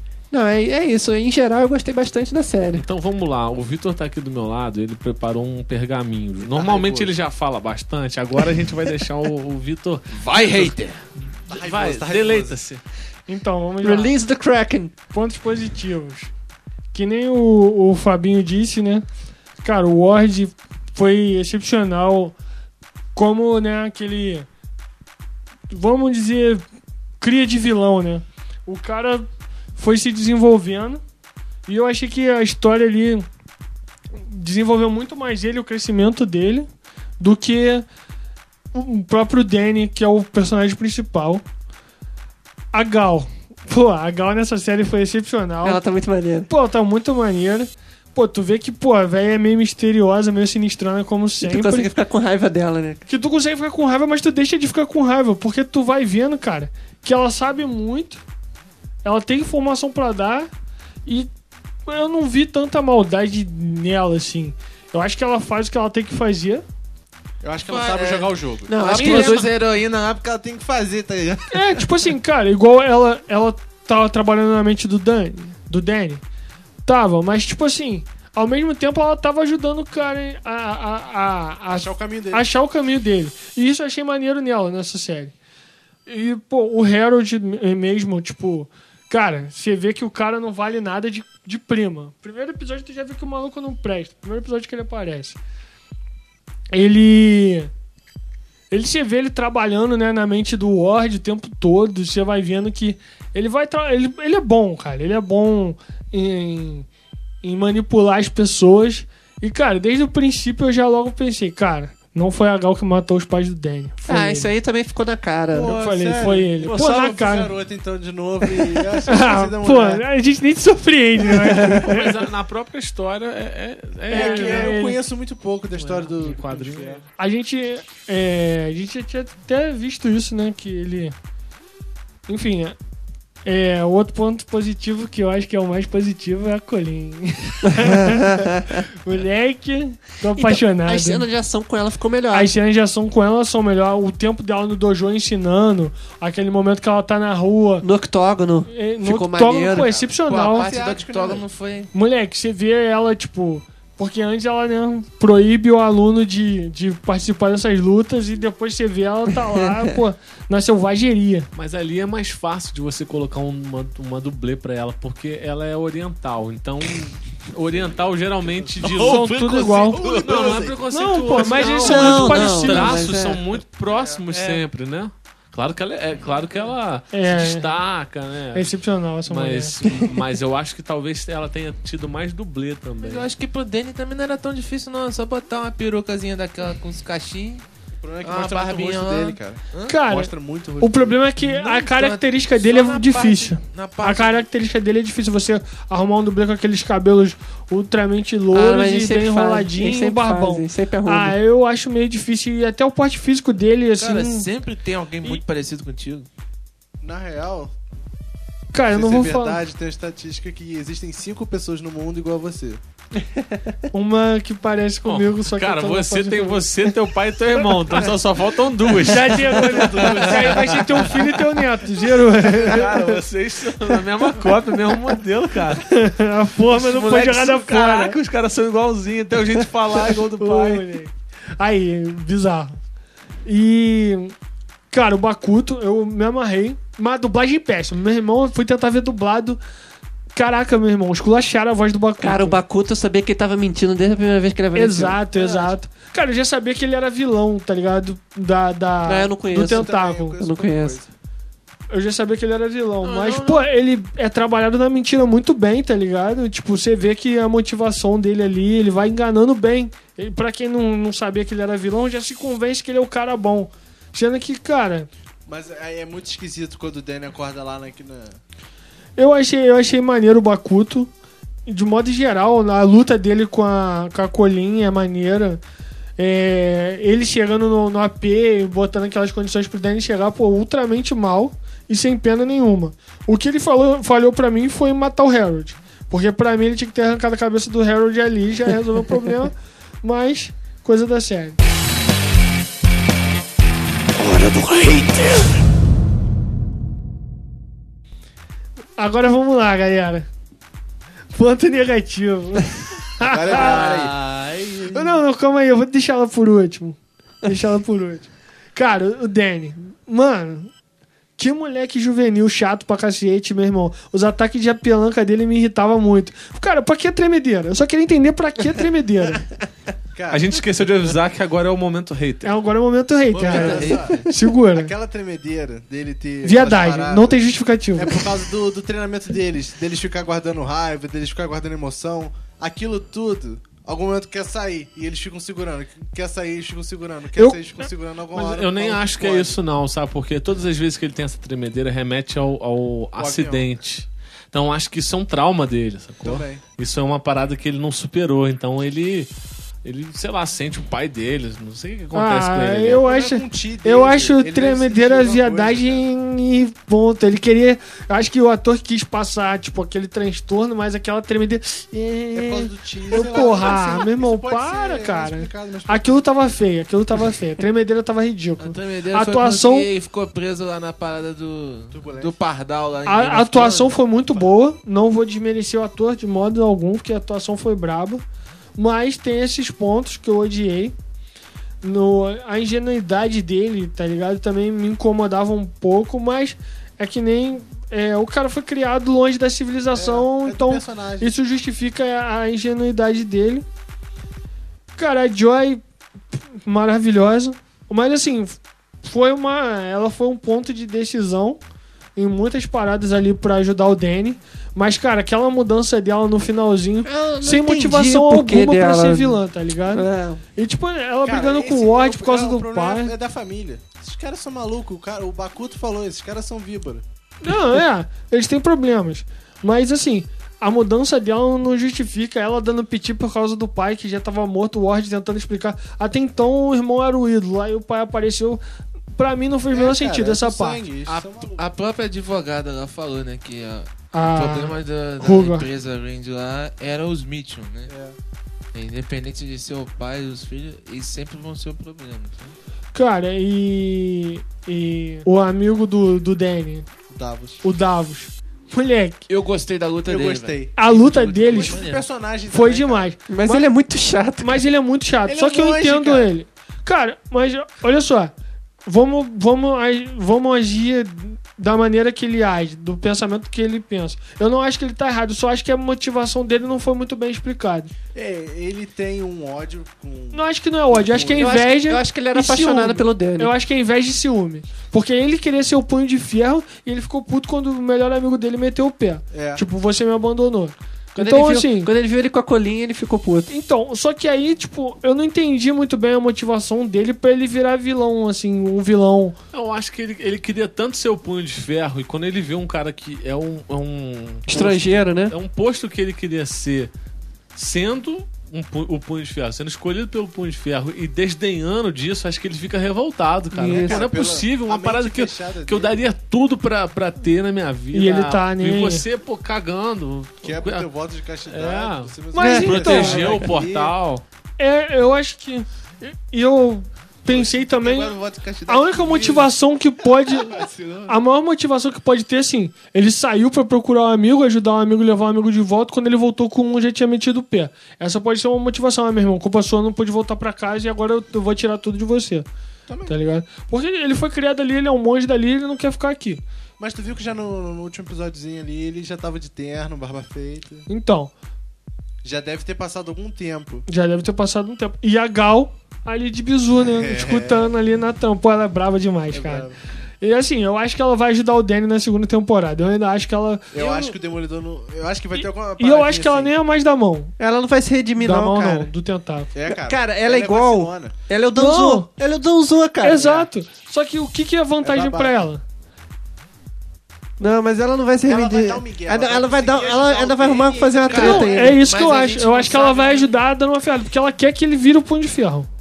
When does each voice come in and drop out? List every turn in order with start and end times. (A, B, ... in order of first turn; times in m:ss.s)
0:00.3-0:02.8 A
0:02.7-0:10.7 B
0:06.4-0:07.1 C
0:10.1-0:11.0 D
0:11.5-0:12.8 B
0:11.5-0:12.6 C
0:13.3-0:14.2 E
0:13.8-0:14.9 A
0:15.1-0:16.3 E
0:16.9-0:19.0 E
0:19.6-0:22.3 E
0:23.1-0:24.5 E
0:25.7-0:26.6 E
0:27.2-0:31.0 E
0:31.7-0:33.2 E
0:34.2-0:36.7 E
0:37.2-0:37.9 E
0:38.7-0:41.4 E
0:42.7-0:45.8 E
0:45.6-0:46.5 A
0:46.5-0:51.9 E
0:51.4-0:53.0 A
0:53.1-0:58.2 E
0:59.0-1:00.5 E
1:01.9-1:06.6 E
1:07.4-1:09.2 C
1:07.6-1:10.2 D
1:08.7-1:09.5 A
1:10.2-1:11.9 C
1:11.5-1:16.2 E
1:16.8-1:25.3 E
1:21.7-1:22.5 C
1:26.0-1:35.4 E
1:36.7-1:37.7 E
1:38.7-1:46.9 E
1:47.4-1:54.5 E
1:54.1-1:55.7 A
1:55.5-2:00.0 C
1:55.6-1:57.5 E
1:59.1-2:02.1 E
2:01.6-2:04.8 B
2:04.1-2:05.0 E
2:04.1-2:07.0 C
2:05.7-2:07.0 B
2:07.2-2:11.1 E
2:12.3-2:12.8 E
2:13.4-2:21.2 E
2:17.7-2:18.8 A
2:20.4-2:22.5 A
2:22.3-2:27.8 E
2:27.8-2:30.0 A
2:28.7-2:30.7 E
2:30.2-2:31.9 D
2:30.5-2:31.5 C
2:31.9-2:41.5 E
2:41.5-2:58.7 B
2:47.7-2:50.8 C
2:48.8-2:50.6 D
2:49.0-2:50.0 E
2:50.9-2:53.1 E
2:51.8-2:53.4 A
2:53.9-2:54.3 C
2:57.1-2:57.7 E
2:58.5-2:59.9 E
2:59.2-3:03.3 B
2:59.9-3:00.2 A
3:03.0-3:07.6 D
3:08.0-3:11.2 C
3:08.2-3:10.0 D
3:09.8-3:24.5 E
3:11.4-3:14.4 D
3:18.5-3:21.4 A
3:24.0-3:26.3 D
3:27.0-3:27.7 C
3:28.7-3:29.6 E
3:28.9-3:32.8 C
3:33.9-3:37.0 E
3:35.0-3:41.4 B
3:37.5-3:38.0 E
3:38.9-3:43.2 E
3:39.7-3:40.6 C
3:42.4-3:45.9 B
3:45.8-3:48.2 E
3:46.7-3:50.9 B
3:49.9-3:52.8 E
3:53.4-3:54.3 E
3:54.9-3:59.6 E
4:00.3-4:02.6 E
4:02.2-4:05.2 A
4:04.7-4:10.4 E
4:05.3-4:05.8 C
4:09.0-4:11.0 A
4:09.5-4:11.1 C
4:11.9-4:25.1 E
4:13.0-4:13.6 D
4:25.5-4:28.4 C
4:29.2-4:31.1 E
4:31.6-4:35.6 E
4:36.2-4:51.6 E
4:54.2-4:55.5 A
4:59.0-5:00.3 E
5:01.3-5:03.9 E
5:03.2-5:05.2 C
5:03.6-5:04.0 D
5:04.9-5:10.7 E
5:11.4-5:19.4 E
5:20.1-5:20.6 C
5:20.3-5:22.5 B
5:22.4-5:24.9 E
5:23.3-5:27.4 C
5:23.3-5:24.3 D
5:26.4-5:28.3 E
5:27.9-5:39.6 C
5:37.4-5:37.6 E
5:38.3-5:49.3 B
5:43.2-5:43.7 C
5:46.2-5:46.6 C
5:49.8-5:53.1 B
5:52.1-6:09.9 E
5:53.0-5:56.0 C
6:02.3-6:06.3 C
6:08.6-6:13.9 D
6:11.9-6:12.3 C
6:13.0-6:18.2 E
6:14.0-6:14.5 C
6:18.8-6:20.9 E
6:21.8-6:33.6 E
6:29.9-6:31.3 C
6:35.0-6:35.8 E
6:36.3-6:41.6 E
6:42.2-6:53.1 E
6:47.0-6:50.4 A
6:51.2-6:57.0 C
6:57.4-7:08.6 E
7:09.2-7:10.8 E
7:09.7-7:11.7 C
7:11.1-7:17.9 D
7:14.1-7:15.7 E
7:17.9-7:18.2 C
7:18.7-7:22.5 D
7:22.9-7:26.8 E
7:27.1-7:27.6 C
7:27.6-7:29.2 E
7:29.3-7:32.0 D
7:30.0-7:33.6 C
7:30.8-7:31.8 E
7:32.5-7:33.2 E
7:33.3-7:34.6 A
7:34.4-7:38.3 E
7:35.2-7:36.3 C
7:38.8-7:47.9 E
7:48.1-7:51.6 C
7:50.3-8:01.9 E
7:51.4-7:53.5 A
7:59.3-7:59.6 C
8:01.2-8:03.5 A
8:03.5-8:09.4 E
8:09.5-8:16.9 B
8:14.5-8:15.3 A
8:17.5-8:30.9 B
8:23.5-8:24.1 A
8:23.7-8:26.0 C
8:27.9-8:29.1 E
8:30.4-8:33.9 C
8:31.5-8:34.2 B
8:32.3-8:33.4 E
8:32.4-8:33.1 A
8:34.6-8:38.1 E
8:37.2-8:39.4 C
8:38.7-8:52.5 E
8:38.8-8:39.4 D
8:40.0-8:41.2 C
8:52.9-8:53.2 C
8:53.1-8:56.4 E
8:56.8-9:00.9 C
9:00.9-9:01.3 E
9:02.2-9:03.8 C
9:03.9-9:09.7 E
9:06.8-9:07.7 C
9:09.3-9:09.8 C
9:10.2-9:13.8 E
9:13.7-9:16.5 C
9:13.8-9:14.1 D
9:15.4-9:17.3 E
9:17.4-9:18.9 A
9:18.2-9:19.5 E
9:19.5-9:21.2 C
9:19.6-9:23.4 A
9:21.5-9:22.1 E
9:23.0-9:25.6 E
9:24.8-9:25.5 C
9:27.4-9:31.8 A
9:28.2-9:31.8 C
9:31.1-9:33.4 D
9:31.2-9:35.7 E